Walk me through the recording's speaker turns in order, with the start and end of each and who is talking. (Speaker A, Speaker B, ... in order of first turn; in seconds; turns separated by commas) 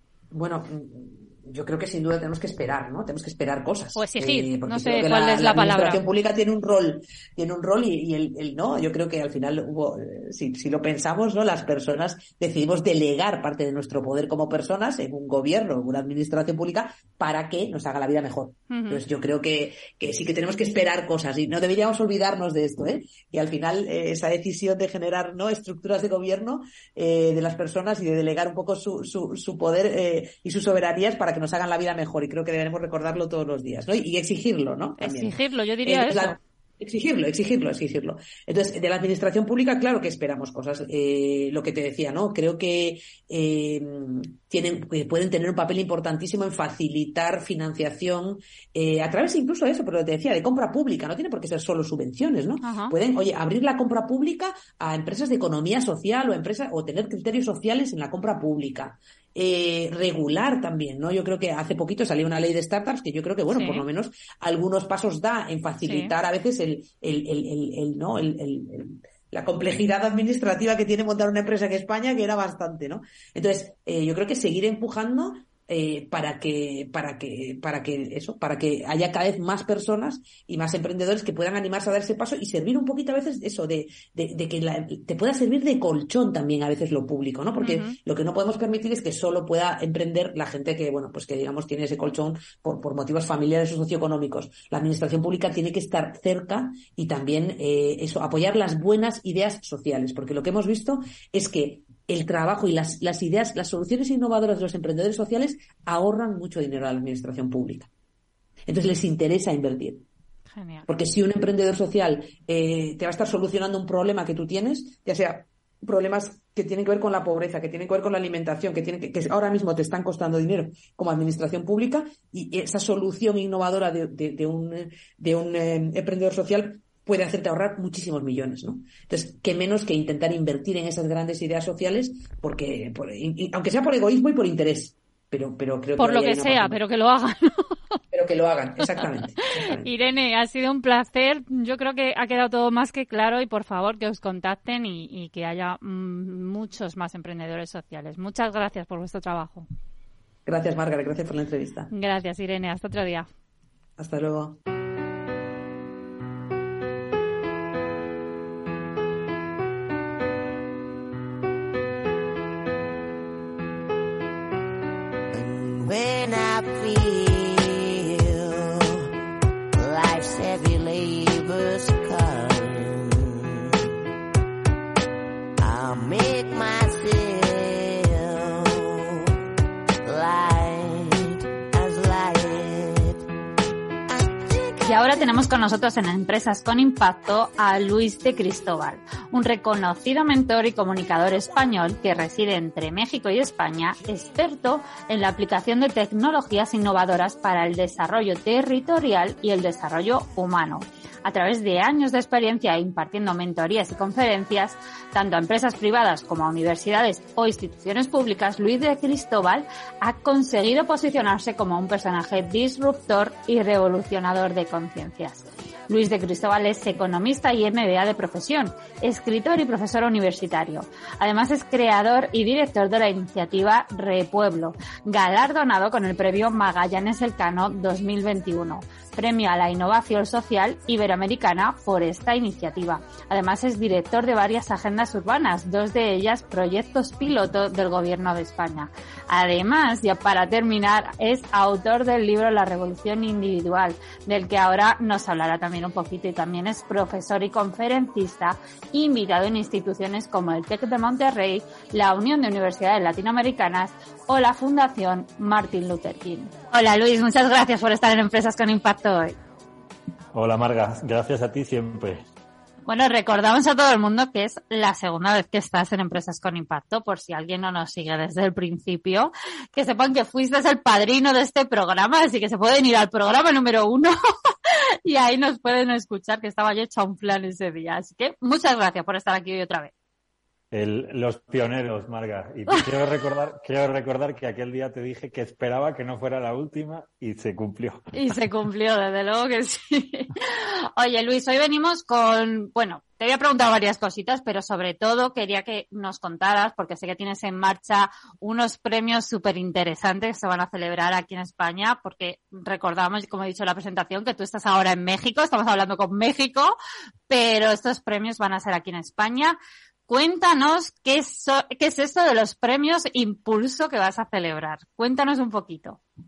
Speaker A: 0.3-107.9, Speaker B: 3.9-6.0, Speaker B: 18.7-19.0, Speaker B: 35.0-36.4, Speaker B: 52.6-52.9, Speaker B: 63.5-63.9, Speaker B: 65.8-66.1, Speaker B: 87.6-88.0, Speaker A: 108.7-110.0, Speaker B: 110.5-110.8, Speaker A: 110.8-136.8, Speaker B: 136.0-137.7, Speaker A: 138.1-139.9, Speaker B: 139.6-149.7, Speaker A: 150.4-151.9, Speaker B: 151.9-153.3, Speaker A: 154.0-154.6, Speaker C: 165.3-169.0, Speaker C: 169.7-173.8, Speaker C: 175.6-179.2, Speaker C: 180.0-183.2, Speaker B: 184.8-259.4, Speaker D: 260.3-262.2, Speaker B: 262.9-274.1, Speaker B: 275.0-279.9, Speaker D: 280.7-288.1, Speaker B: 288.1-306.8, Speaker B: 307.3-316.0